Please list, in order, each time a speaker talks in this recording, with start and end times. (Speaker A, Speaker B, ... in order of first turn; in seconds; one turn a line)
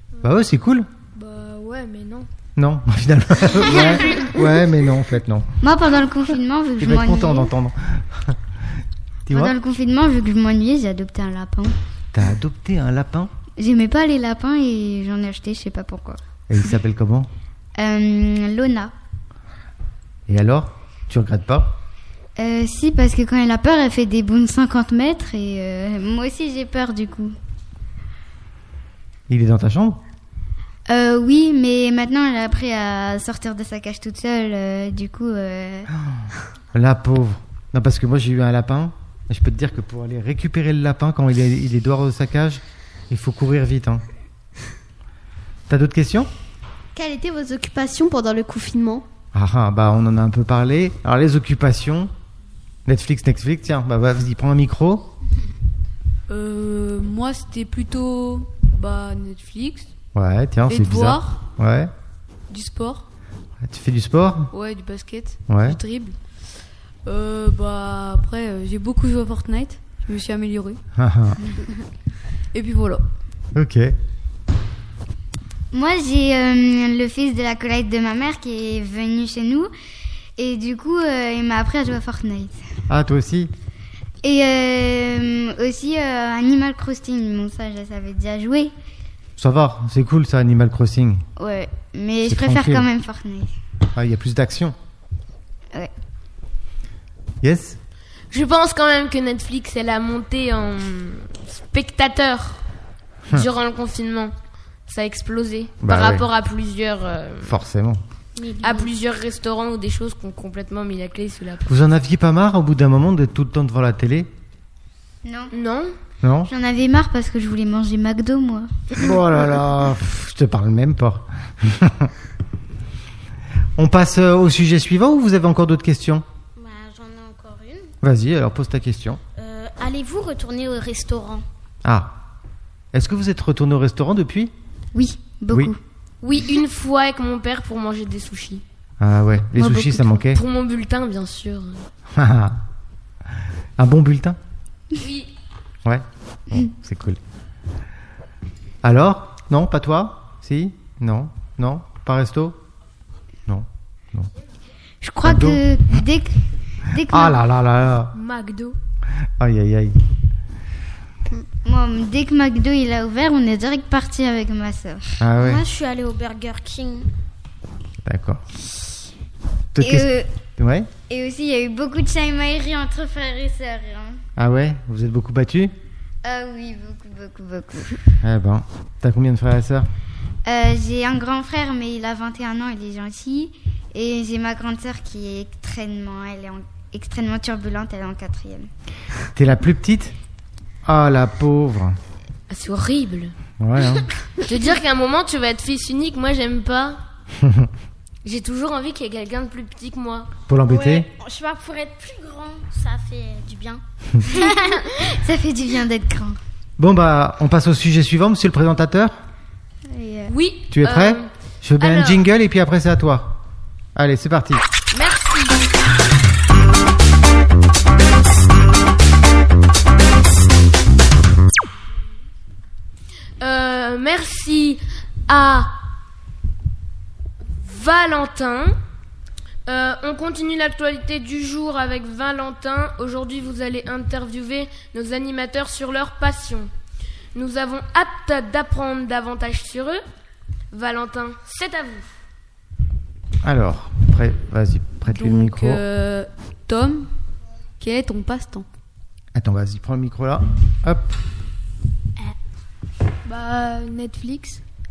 Speaker A: 0.2-0.9
Speaker B: 1.1-2.3
Speaker A: 2.6-5.5
Speaker C: 5.6-7.5
Speaker A: 6.8-8.4
Speaker A: 9.3-9.5
Speaker C: 9.3-11.8
Speaker A: 12.1-13.3
Speaker C: 13.6-16.2
Speaker A: 16.5-17.3
Speaker C: 17.8-18.9
Speaker A: 20.3-21.7
Speaker C: 22.4-27.4
Speaker A: 29.3-30.0
Speaker C: 30.9-35.9
Speaker A: 36.7-44.0
Speaker A: 45.7-46.3
Speaker D: 46.9-49.0
Speaker A: 49.3-52.1
Speaker A: 52.9-55.1
Speaker E: 56.3-59.9
Speaker A: 60.1-61.9
Speaker E: 60.7-61.4
Speaker E: 62.5-63.0
Speaker A: 63.6-64.5
Speaker E: 64.5-66.2
Speaker A: 65.5-65.8
Speaker E: 67.1-70.8
Speaker A: 71.0-71.4
Speaker E: 72.5-73.0
Speaker A: 73.5-73.9
Speaker C: 75.7-79.7
Speaker C: 80.4-82.6
Speaker A: 82.9-83.5
Speaker C: 84.2-88.7
Speaker A: 89.4-91.2
Speaker C: 91.4-93.5
Speaker A: 92.3-92.8
Speaker A: 93.9-94.8
Speaker A: 97.4-97.8
Speaker F: 98.3-102.6
Speaker F: 103.3-104.3
Speaker F: 104.9-107.5
Speaker A: 105.8-106.2
Speaker A: 107.4-108.0
Speaker G: 108.4-108.9
Speaker F: 108.6-111.8
Speaker A: 111.7-114.3
Speaker C: 115.2-115.5
Speaker F: 115.5-115.9
Speaker A: 116.2-116.5
Speaker C: 116.5-118.7
Speaker A: 119.0-122.1
Speaker A: 123.8-126.2
Speaker G: 126.6-127.9
Speaker A: 128.0-129.2
Speaker G: 129.4-131.4
Speaker A: 131.8-132.1
Speaker A: 132.9-134.5
Speaker C: 134.9-135.8
Speaker F: 136.2-138.6
Speaker A: 139.0-140.4
Speaker F: 139.6-141.8
Speaker A: 142.1-142.6
Speaker A: 143.8-144.4
Speaker F: 145.0-145.3
Speaker A: 145.8-147.2
Speaker A: 148.8-152.6
Speaker A: 153.5-154.3
Speaker C: 155.0-156.3
Speaker A: 155.2-155.6
Speaker C: 156.9-157.4
Speaker A: 157.1-158.1
Speaker B: 158.2-158.8
Speaker A: 159.4-160.0
Speaker C: 161.7-165.2
Speaker A: 165.2-165.6
Speaker G: 165.4-167.1
Speaker A: 168.0-168.4
Speaker A: 169.7-170.9
Speaker C: 169.8-170.3
Speaker C: 171.1-174.2
Speaker A: 174.4-175.7
Speaker C: 176.2-178.0
Speaker A: 178.2-179.9
Speaker C: 180.4-188.7
Speaker A: 189.3-190.1
Speaker A: 190.8-192.0
Speaker F: 192.5-193.3
Speaker A: 193.6-194.1
Speaker F: 194.4-197.0
Speaker A: 197.4-197.7
Speaker F: 198.2-200.3
Speaker A: 200.5-201.1
Speaker G: 200.7-205.1
Speaker C: 204.3-206.4
Speaker A: 206.8-209.2
Speaker C: 209.9-210.3
Speaker F: 210.3-211.3
Speaker A: 210.7-213.4
Speaker F: 211.8-212.2
Speaker A: 213.9-214.6
Speaker F: 214.9-215.6
Speaker F: 223.4-225.7
Speaker F: 227.6-228.7
Speaker F: 229.7-236.7
Speaker F: 237.3-240.0
Speaker F: 240.7-242.1
Speaker A: 243.4-245.8
Speaker E: 245.1-247.1
Speaker E: 247.8-248.7
Speaker A: 249.3-251.2
Speaker B: 253.3-254.6